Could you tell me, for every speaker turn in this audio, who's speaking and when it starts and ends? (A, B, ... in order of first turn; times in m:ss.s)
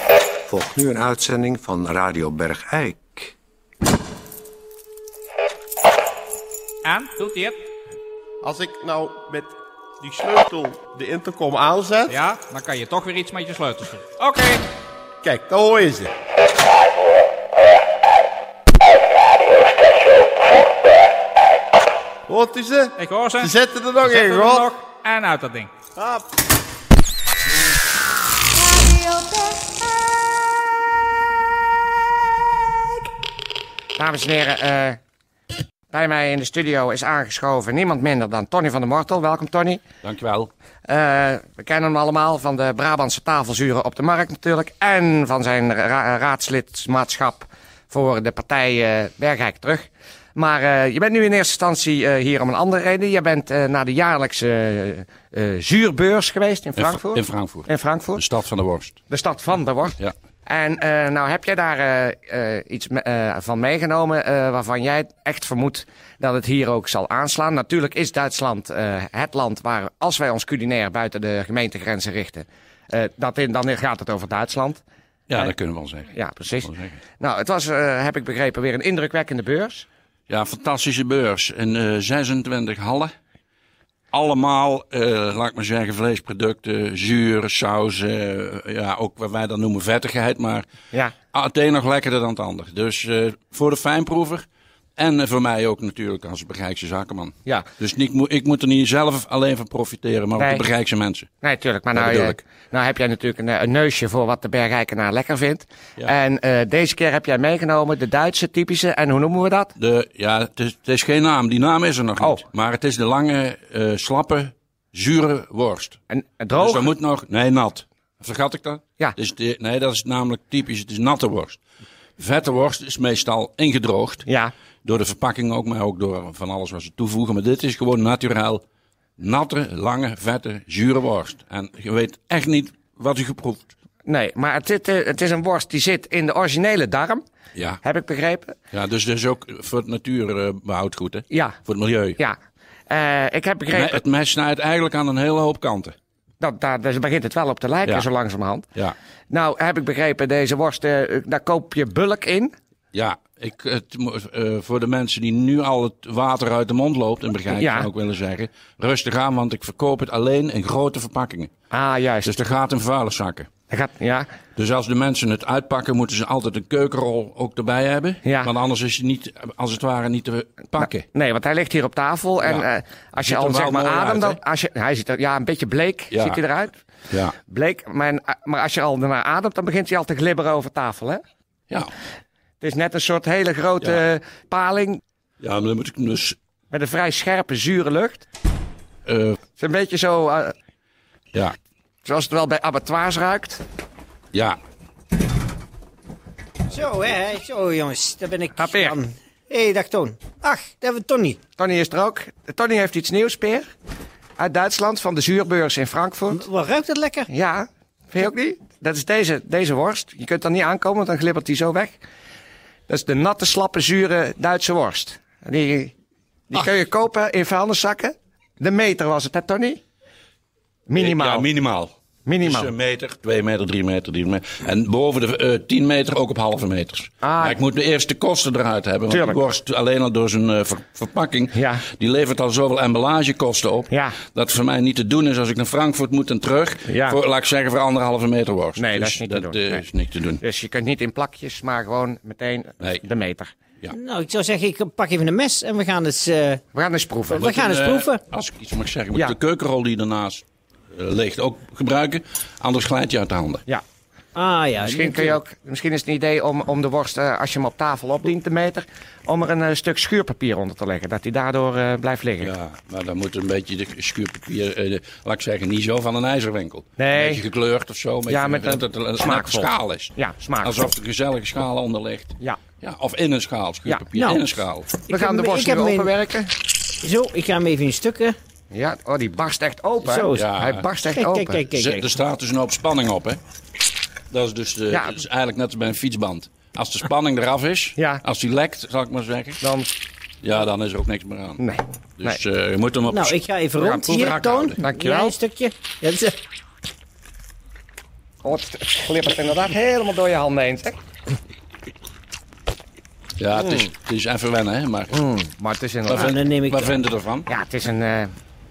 0:00.5-0:03.3 A
0:06.8-0:07.6 B
0:08.4-0:12.1 C
0:12.1-0:14.6 B
0:15.2-0:16.1 C
0:22.3-0:24.6 C
0:23.0-0:25.7 B
0:26.0-0:26.2 C
0:34.0-0:35.0 D
0:35.9-0:39.8 D
0:40.0-0:40.5 E
0:40.9-0:58.2 D
0:56.8-0:59.0 E
0:59.1-1:14.8 D
1:15.3-1:17.0 E
1:16.1-1:19.9 D
1:20.3-1:23.1 E
1:24.1-1:30.7 E
1:31.3-1:34.4 E
1:35.0-1:41.3 E
1:40.4-1:40.6 D
1:41.4-1:49.7 D
1:42.0-1:42.4 E
1:49.8-1:56.0 E
1:56.1-1:56.9 D
1:56.6-2:01.6 E
2:02.2-2:04.3 E
2:04.3-2:04.5 D
2:04.8-2:08.6 E
2:09.2-2:13.7 E
2:14.0-2:17.2 D
2:17.8-2:18.6 D
2:18.7-2:22.2 E
2:22.9-2:24.0 D
2:23.7-2:26.0 E
2:26.4-2:28.7 D
2:29.3-2:32.5 D
2:32.9-2:41.5 E
2:37.5-2:37.9 D
2:41.7-2:42.4 D
2:42.2-2:43.5 E
2:43.7-2:44.3 D
2:44.6-2:51.1 E
2:48.2-2:48.5 D
2:50.8-2:56.8 D
2:53.2-2:54.4 E
2:56.1-2:56.4 E
2:57.1-2:57.4 E
2:57.4-3:01.2 D
3:02.6-3:05.0 D
3:05.4-3:06.4 E
3:06.7-3:08.3 D
3:09.1-3:09.4 E
3:09.6-3:10.5 D
3:12.0-3:13.6 D
3:14.3-3:14.6 E
3:16.7-3:21.4 F
3:18.6-3:19.0 D
3:21.6-3:23.7 D
3:24.4-3:26.4 D
3:26.3-3:27.3 F
3:27.3-3:32.0 D
3:32.9-3:35.9 D
3:36.5-3:39.8 D
3:40.9-3:41.5 D
3:41.0-4:00.4 E
3:42.3-3:42.7 D
3:47.2-3:47.6 D
3:49.1-3:49.4 D
3:51.5-3:51.8 D
3:53.9-3:54.2 D
3:56.9-3:57.2 D
3:58.8-3:59.8 D
4:00.4-4:03.5 D
4:02.8-4:03.0 E
4:03.9-4:06.6 F
4:06.7-4:07.5 D
4:07.3-4:08.2 F
4:07.3-4:13.6 E
4:14.4-4:15.4 F
4:14.8-4:22.5 D
4:22.4-4:34.9 E
4:27.0-4:27.4 D
4:28.3-4:30.9 D
4:34.2-4:34.5 F
4:35.1-4:36.1 F
4:35.1-4:36.5 D
4:37.0-4:38.4 F
4:38.7-4:41.9 D
4:40.0-4:40.5 F
4:40.3-4:40.8 E
4:41.1-4:42.0 F
4:41.6-4:43.4 E
4:44.3-4:49.6 E
4:48.0-4:48.2 D
4:49.6-4:49.9 D
4:50.4-4:51.6 E
4:51.6-4:52.4 D
4:52.2-4:53.4 E
4:53.1-4:56.4 F
4:53.8-4:55.4 D
4:58.4-5:01.0 D
5:03.4-5:05.2 E
5:03.6-5:03.9 D
5:05.1-5:06.4 D
5:06.1-5:07.5 E
5:06.1-5:07.0 F
5:07.5-5:08.3 D